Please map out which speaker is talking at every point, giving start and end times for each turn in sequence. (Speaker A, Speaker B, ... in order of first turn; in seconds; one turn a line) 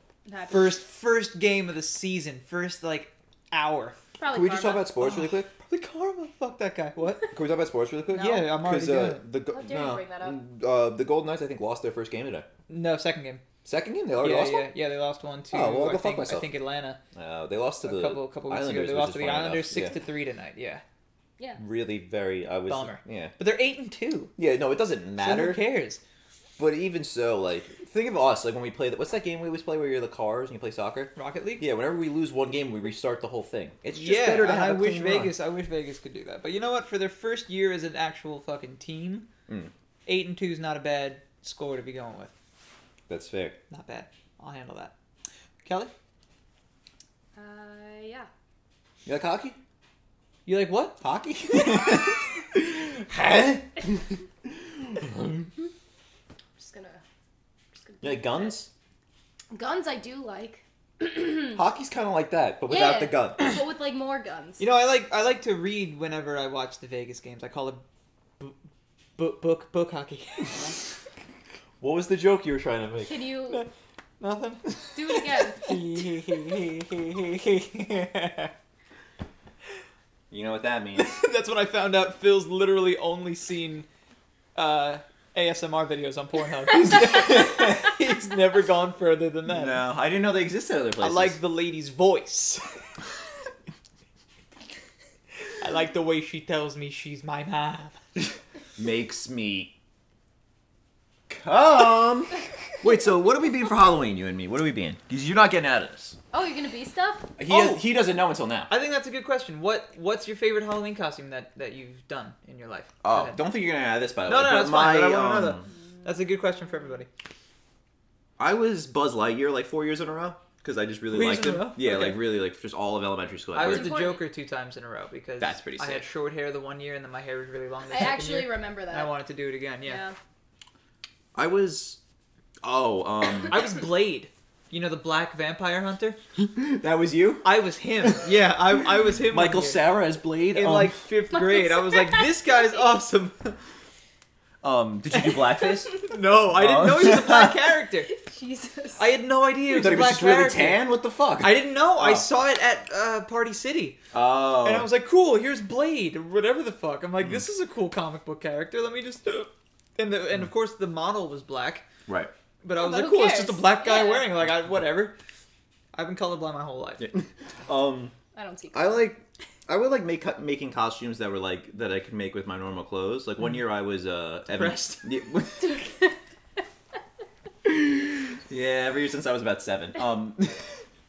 Speaker A: 0.2-0.8
Speaker B: 0.5-4.0
Speaker A: 4.2-4.9
Speaker C: 4.3-5.6
Speaker B: 5.0-7.3
Speaker C: 7.3-12.5
Speaker B: 8.1-9.2
Speaker A: 9.5-10.4
Speaker B: 12.7-13.4
Speaker C: 13.6-14.7
Speaker B: 14.2-17.0
Speaker C: 15.5-16.5
Speaker C: 17.1-20.0
Speaker B: 17.8-20.8
Speaker C: 21.6-23.3
Speaker B: 22.7-24.3
Speaker C: 24.4-25.6
Speaker B: 25.2-26.0
Speaker C: 26.6-35.3
Speaker B: 31.1-31.7
Speaker B: 33.9-39.3
Speaker B: 40.0-42.3
Speaker C: 43.1-43.6
Speaker B: 43.7-44.9
Speaker B: 45.6-45.9
Speaker A: 47.4-48.3
Speaker C: 49.0-49.6
Speaker B: 50.5-51.0
Speaker C: 51.0-55.5
Speaker A: 56.6-57.0
Speaker A: 57.8-58.6
Speaker C: 58.0-58.7
Speaker A: 59.5-61.6
Speaker C: 61.5-63.6
Speaker A: 62.7-64.6
Speaker B: 64.6-67.8
Speaker B: 69.2-70.8
Speaker C: 71.8-73.2
Speaker A: 73.0-73.6
Speaker B: 73.5-78.5
Speaker A: 74.9-75.8
Speaker C: 80.3-81.2
Speaker B: 81.0-83.9
Speaker B: 84.5-89.8
Speaker C: 89.5-91.4
Speaker B: 91.0-92.7
Speaker B: 95.6-98.0
Speaker C: 98.8-99.7
Speaker C: 101.3-106.2
Speaker A: 106.3-107.3
Speaker C: 107.4-108.7
Speaker B: 107.5-107.8
Speaker B: 108.7-113.4
Speaker C: 113.0-115.7
Speaker B: 114.2-117.1
Speaker C: 118.4-124.0
Speaker B: 121.1-122.2
Speaker B: 123.5-130.0
Speaker A: 123.6-124.2
Speaker C: 125.4-126.0
Speaker A: 127.9-129.1
Speaker A: 129.8-130.2
Speaker C: 131.3-132.0
Speaker C: 132.6-133.7
Speaker B: 133.5-136.2
Speaker C: 136.4-138.2
Speaker B: 137.4-139.8
Speaker C: 139.3-141.0
Speaker B: 140.5-143.6
Speaker A: 141.3-142.8
Speaker C: 144.6-147.6
Speaker B: 145.1-148.1
Speaker A: 148.1-149.1
Speaker B: 149.0-150.9
Speaker C: 149.7-152.2
Speaker B: 151.4-154.0
Speaker C: 154.1-154.9
Speaker B: 154.6-161.8
Speaker C: 162.1-162.3
Speaker B: 162.6-165.1
Speaker A: 162.8-164.3
Speaker B: 165.9-167.1
Speaker C: 167.0-168.1
Speaker A: 168.3-169.1
Speaker C: 168.7-175.9
Speaker B: 174.5-175.1
Speaker C: 177.6-180.7